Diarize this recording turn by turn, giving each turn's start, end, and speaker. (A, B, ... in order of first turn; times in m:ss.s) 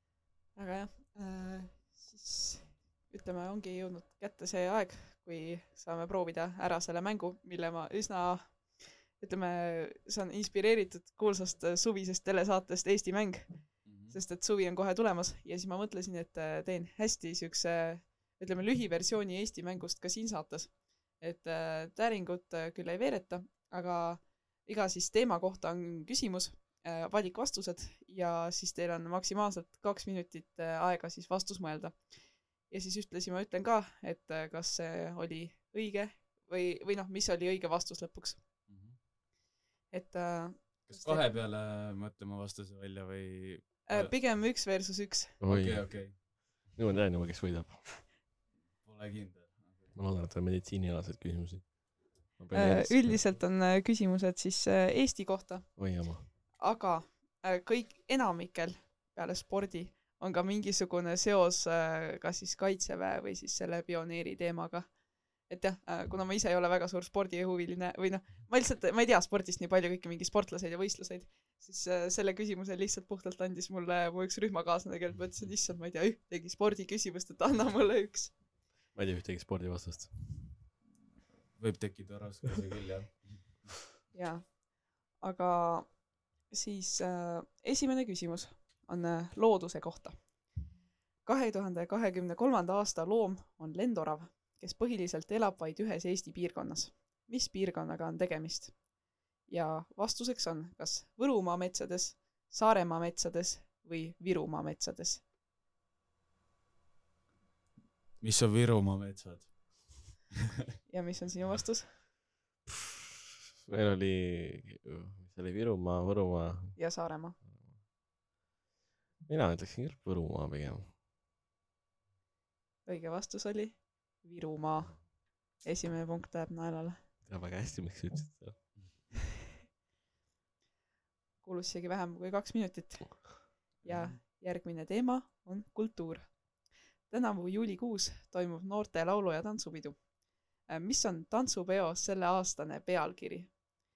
0:00.6-0:38.4 A
0:13.8-0:14.2 B
0:38.7-0:39.0 B
0:39.9-0:41.3 A
0:40.9-0:44.2 B
0:43.9-0:45.4 A
0:45.4-0:48.1 C
0:45.5-0:46.5 B
0:48.8-0:50.0 B
0:50.0-0:53.2 C
0:52.5-1:18.4 A
0:55.8-0:56.3 C
1:18.9-1:20.5 C
1:21.5-1:23.8 B
1:24.1-1:30.2 A
1:31.2-1:38.8 A
1:39.5-1:45.3 A
1:48.2-1:50.2 B
1:50.9-1:52.0 A
1:53.7-1:56.9 C
1:56.8-1:57.4 A
1:59.3-2:00.9 C
2:02.9-2:07.0 A
2:07.3-2:08.8 C
2:11.4-2:20.1 A
2:13.8-2:14.2 B
2:20.6-2:23.6 A